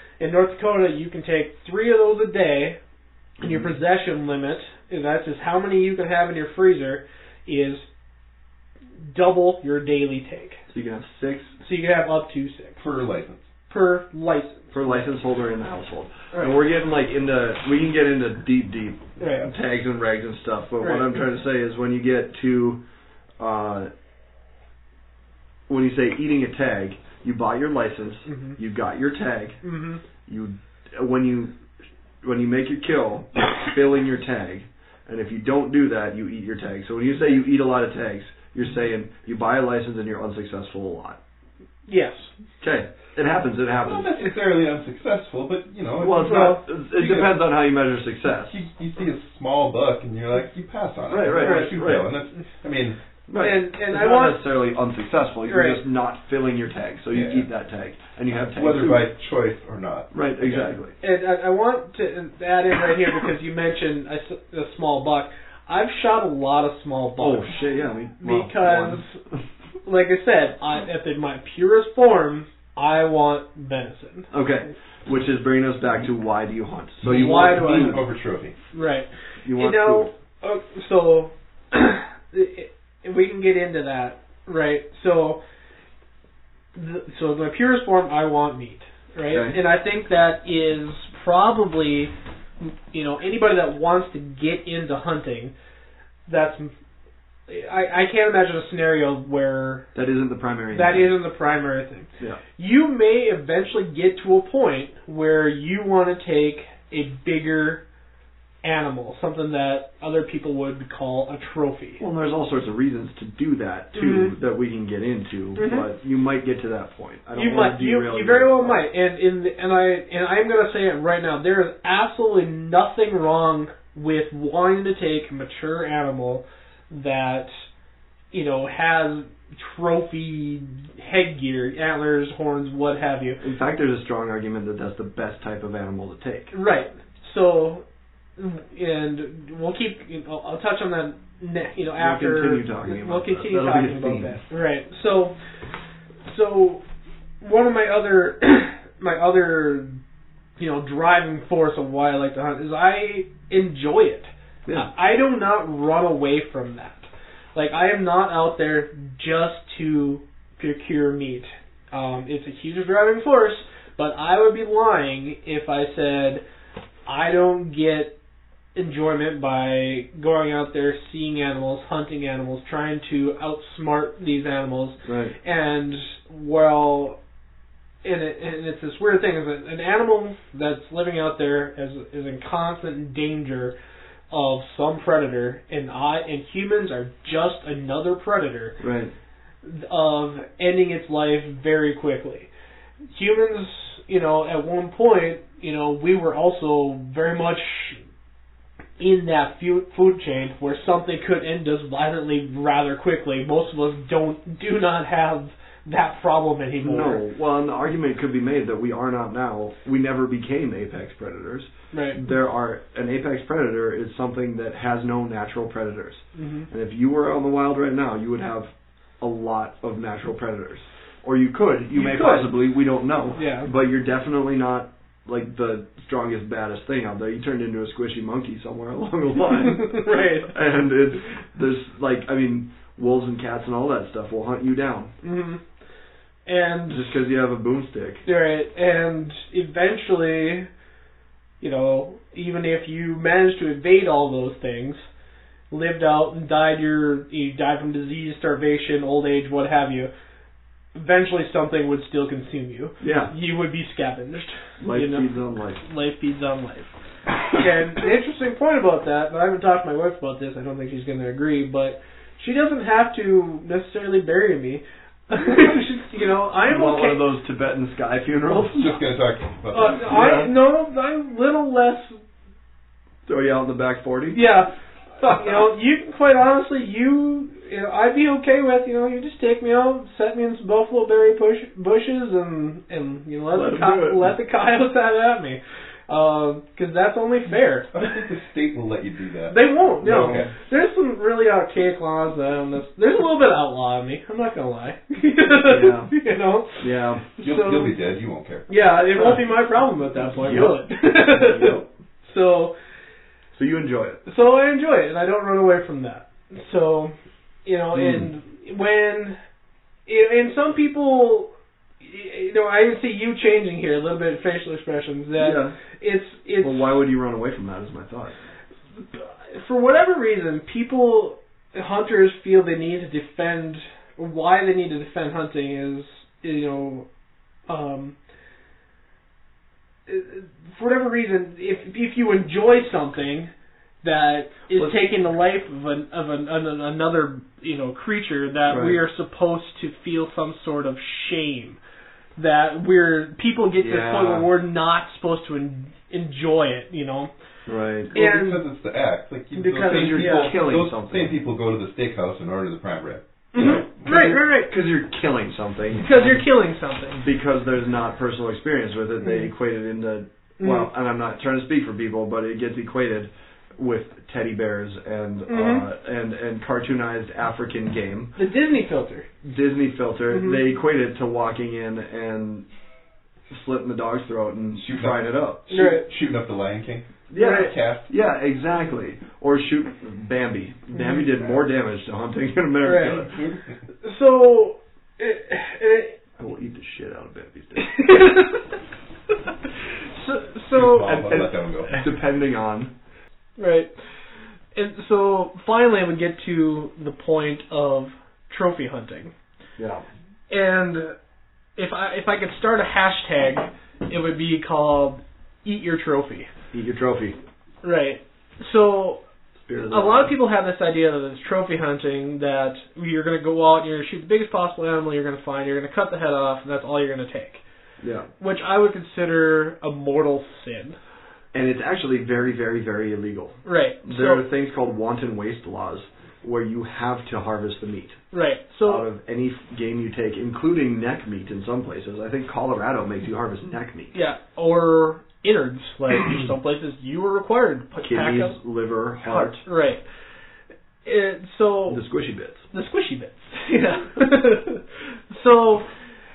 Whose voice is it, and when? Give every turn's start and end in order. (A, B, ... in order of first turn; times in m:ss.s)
0:00.2-0:02.8 A
0:03.4-0:07.8 A
0:03.4-0:03.7 B
0:09.0-0:10.6 A
0:10.7-0:11.5 B
0:11.6-0:12.8 A
0:12.8-0:13.5 C
0:13.7-0:15.1 A
0:14.7-0:22.8 B
0:16.3-0:16.6 A
0:19.2-0:19.5 A
0:20.8-0:21.1 A
0:23.4-0:23.9 B
0:25.7-0:29.6 B
0:28.3-0:28.6 A
0:29.6-0:30.0 A
0:30.2-0:31.5 B
0:32.2-0:41.2 B
0:41.9-0:42.3 A
0:42.6-0:44.1 B
0:43.8-0:47.4 C
0:46.0-0:48.5 B
0:46.2-0:46.6 A
0:48.4-0:53.0 C
0:51.1-0:52.1 B
0:51.4-0:51.8 A
0:53.3-0:59.1 B
0:53.4-0:54.4 A
0:55.5-0:55.8 A
0:57.1-0:57.4 C
0:58.3-1:00.8 C
1:00.1-1:00.9 B
1:01.0-1:07.6 A
1:07.2-1:09.0 B
1:08.2-1:09.2 A
1:09.8-1:14.3 A
1:14.3-1:18.0 B
1:17.0-1:18.6 C
1:17.0-1:18.0 A
1:18.7-1:25.4 A
1:19.4-1:20.1 B
1:26.7-1:35.5 A
1:29.3-1:29.6 B
1:36.3-1:36.7 A
1:37.5-1:39.9 A
1:39.9-1:41.1 B
1:40.7-1:47.8 A
1:48.6-1:52.0 A
1:52.0-1:58.8 B
1:53.9-1:54.3 A
1:55.6-1:55.8 A
1:57.3-2:07.5 A
2:08.3-2:13.4 A
2:13.4-2:16.5 B
2:16.5-2:17.8 A
2:18.4-2:25.4 A
2:22.0-2:24.4 B
2:26.2-2:26.8 A
2:27.4-2:30.0 A
2:30.6-2:46.4 A
2:47.0-2:48.2 A
2:48.7-2:57.2 A
2:55.0-2:55.4 B
2:58.0-3:03.7 A
3:04.3-3:08.8 A
3:08.8-3:09.1 B
3:09.6-3:12.5 A
3:13.1-3:18.0 A
3:19.0-3:27.2 A
3:26.8-3:55.2 B
3:31.9-3:32.2 A
3:36.4-3:36.7 A
3:42.0-3:42.4 A
3:42.1-3:42.5 C
3:43.4-3:43.7 A
3:49.5-3:50.5 A
3:55.2-3:55.6 A
3:56.4-3:57.1 A
3:56.9-3:58.2 B
3:58.2-4:00.7 A
4:01.6-4:05.1 A
4:05.7-4:10.1 A
4:10.9-4:15.3 A
4:13.0-4:13.3 B
4:14.8-4:15.8 B
4:15.8-4:16.9 A
4:17.5-4:27.2 A
4:26.7-4:28.9 B
4:28.6-4:30.4 C
4:29.7-4:32.2 A
4:30.1-4:30.5 B
4:33.2-4:34.4 B
4:34.3-4:48.2 A
4:43.5-4:44.3 B
4:47.9-4:50.5 C
4:49.5-4:57.9 A
4:50.0-4:50.5 B
4:55.6-4:56.1 B
4:56.8-4:57.2 B
4:57.4-4:58.7 C
4:58.7-5:02.7 A
5:00.3-5:01.9 B
5:03.5-5:04.2 B
5:04.2-5:09.4 A
5:07.9-5:08.3 B
5:10.1-5:17.0 A
5:15.4-5:15.8 B
5:16.6-5:18.4 B
5:19.1-5:27.1 A
5:27.7-5:28.2 A
5:30.1-5:33.5 A
5:34.0-5:41.8 A
5:34.7-5:35.0 B
5:38.7-5:39.0 B
5:42.4-5:47.3 A
5:43.8-5:44.5 B
5:47.7-5:48.1 B
5:48.1-5:53.9 C
5:48.1-5:48.6 A
5:49.5-5:50.5 A
5:49.8-5:51.4 B
5:53.5-5:54.7 A
5:53.6-5:56.4 B
5:55.9-5:57.2 A
5:57.2-6:08.3 B
6:00.6-6:00.9 A
6:05.5-6:05.8 A
6:08.4-6:09.3 A
6:09.4-6:12.6 B
6:10.3-6:10.6 A
6:13.5-6:15.8 B
6:14.8-6:18.1 C
6:15.7-6:16.0 A
6:17.3-6:23.4 B
6:17.3-6:17.7 A
6:20.9-6:21.3 A
6:22.8-6:23.3 A
6:23.3-6:23.7 C
6:24.0-6:26.2 A
6:26.4-6:28.3 B
6:27.8-6:28.7 A
6:30.1-6:31.4 A
6:30.7-6:32.0 C
6:31.0-6:32.9 B
6:33.6-6:33.9 A
6:34.7-6:39.3 A
6:39.8-6:40.0 B
6:40.5-6:41.1 A
6:41.8-6:46.5 A
6:46.7-6:47.4 B
6:47.8-6:49.2 A
6:49.7-6:50.3 B
6:49.9-6:57.6 A
6:58.0-6:58.3 B
6:58.4-7:01.0 A
7:01.5-7:08.2 B
7:03.6-7:04.4 A
7:08.3-7:09.0 A
7:08.8-7:14.1 B
7:14.1-7:18.6 A
7:18.0-7:19.6 B
7:19.2-7:20.0 A
7:21.0-7:22.0 A
7:21.9-7:22.6 B
7:22.7-7:25.9 A